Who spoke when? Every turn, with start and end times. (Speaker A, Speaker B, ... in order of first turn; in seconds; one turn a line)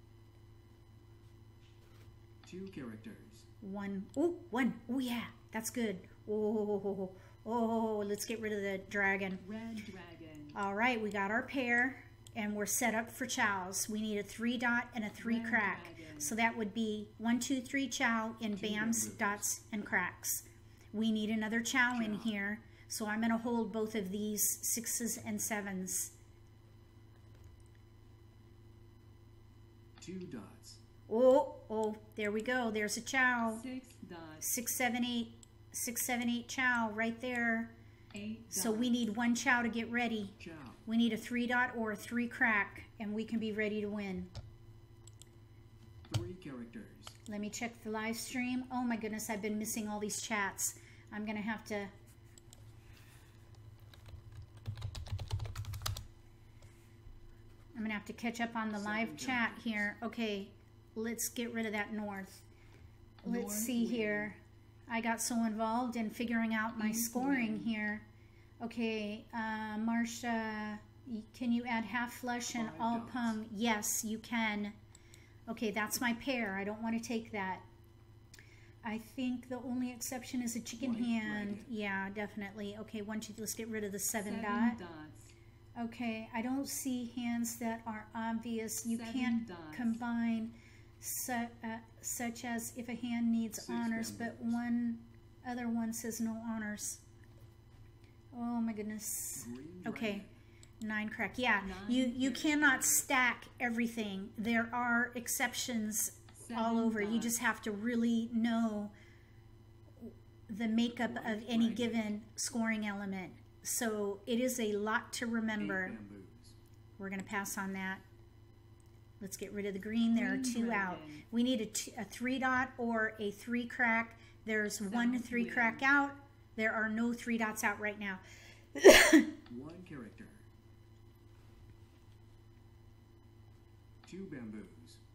Speaker A: 2.4-3.5
Speaker B: 3.6-9.4
Speaker C: 9.4-10.6
Speaker B: 10.5-26.1
Speaker C: 15.2-16.4
Speaker A: 18.6-19.5
Speaker A: 21.9-22.3
Speaker A: 30.0-30.8
Speaker B: 31.1-33.6
Speaker C: 33.5-34.5
Speaker B: 34.4-37.7
Speaker C: 38.1-39.1
Speaker B: 38.5-44.3
Speaker A: 40.4-40.8
Speaker A: 46.1-47.2
Speaker B: 47.3-51.9
Speaker B: 57.7-62.5
Speaker A: 58.7-60.0
Speaker C: 63.2-64.3
Speaker B: 63.2-68.1
Speaker C: 66.8-67.7
Speaker B: 68.6-74.8
Speaker A: 72.5-73.4
Speaker B: 75.5-77.7
Speaker B: 78.8-84.8
Speaker A: 80.8-81.7
Speaker C: 84.2-85.3
Speaker B: 85.8-97.0
Speaker C: 88.9-90.0
Speaker A: 93.5-94.6
Speaker B: 98.3-100.3
Speaker A: 99.3-100.4
Speaker B: 100.8-108.9
Speaker C: 101.6-103.1
Speaker C: 106.4-107.4
Speaker B: 110.0-116.0
Speaker A: 111.0-112.1
Speaker A: 115.5-116.6
Speaker B: 117.0-118.0
Speaker B: 119.2-128.2
Speaker C: 120.1-121.2
Speaker C: 124.8-125.9
Speaker B: 128.8-129.3
Speaker A: 129.5-130.4
Speaker A: 134.1-135.0